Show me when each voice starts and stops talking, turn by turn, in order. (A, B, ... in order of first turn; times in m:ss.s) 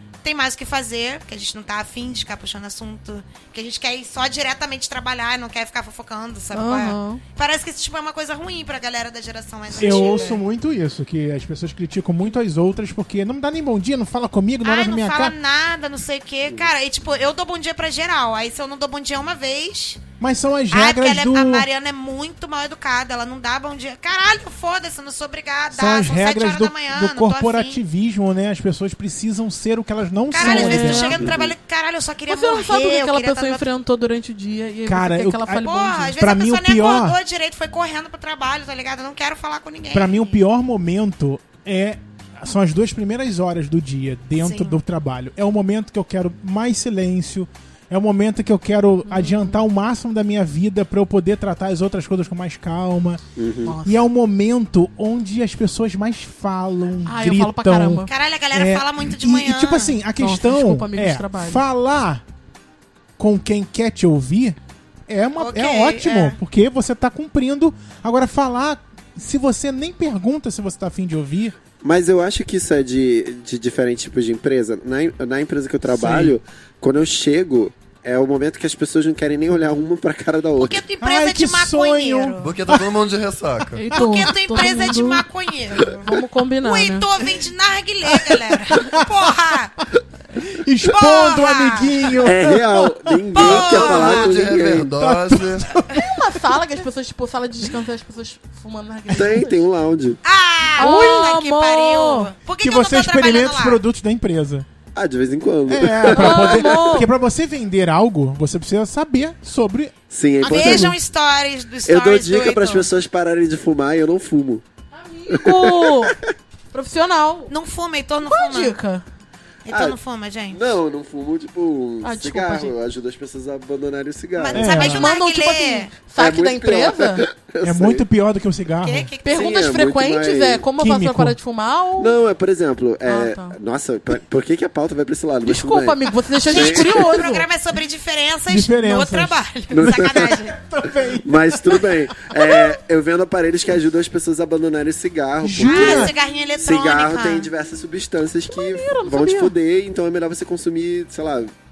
0:00.2-0:10.4 A
0:06.5-0:07.2 B
0:09.7-0:15.3 C
0:14.6-0:20.0 A
0:20.2-0:21.7 C
0:20.7-0:27.8 A
0:25.7-0:31.2 C
0:30.3-0:33.7 A
0:30.4-0:31.2 B
0:31.2-0:31.5 D
0:32.3-0:36.1 B
0:34.8-0:37.2 C
0:35.5-0:40.4 A
0:39.9-0:53.2 C
0:44.4-0:44.8 A
0:49.0-0:49.6 B
0:53.4-0:53.8 D
0:53.6-0:54.0 B
0:53.8-1:02.2 C
0:57.0-0:58.1 B
0:58.1-1:00.0 A
1:00.2-1:01.6 B
1:03.2-1:04.6 C
1:05.1-1:11.6 C
1:05.4-1:06.4 A
1:11.8-1:20.8 D
1:15.8-1:16.4 C
1:20.6-1:22.5 A
1:21.0-1:22.8 C
1:22.4-1:23.8 E
1:23.8-1:25.2 B
1:23.9-1:26.0 A
1:23.9-1:24.7 C
1:25.8-1:27.0 B
1:26.6-1:29.8 A
1:28.3-1:29.1 C
1:30.3-1:33.2 C
1:30.8-1:32.1 A
1:32.2-1:34.9 D
1:33.3-1:34.4 A
1:33.5-1:35.7 E
1:35.0-1:36.6 C
1:36.0-1:39.6 B
1:39.1-1:40.2 D
1:40.2-1:43.8 A
1:40.8-1:42.3 B
1:40.8-1:41.3 C
1:42.6-1:44.6 C
1:44.9-1:46.9 D
1:45.7-1:51.0 C
1:46.1-1:47.1 B
1:50.1-1:50.9 D
1:50.5-1:52.9 A
1:51.9-1:54.6 D
1:54.9-1:56.1 B
1:55.3-1:56.3 D
1:56.7-1:57.5 B
1:57.5-1:58.8 A
1:58.2-1:59.0 B
1:59.6-2:00.7 A
1:59.7-2:00.0 D
2:00.5-2:05.0 D
2:02.0-2:02.8 B
2:04.3-2:05.9 A
2:04.5-2:05.1 C
2:04.7-2:07.2 B
2:06.2-2:08.0 D
2:07.6-2:09.1 C
2:08.8-2:09.5 A
2:09.2-2:12.2 B
2:09.3-2:10.6 D
2:10.8-2:11.4 C
2:12.0-2:17.2 D
2:13.0-2:13.6 B
2:15.4-2:17.5 B
2:16.4-2:20.6 A
2:18.5-2:22.5 C
2:19.7-2:20.4 D
2:21.2-2:31.5 D
2:25.4-2:26.1 C
2:25.5-2:27.5 A
2:28.5-2:29.5 B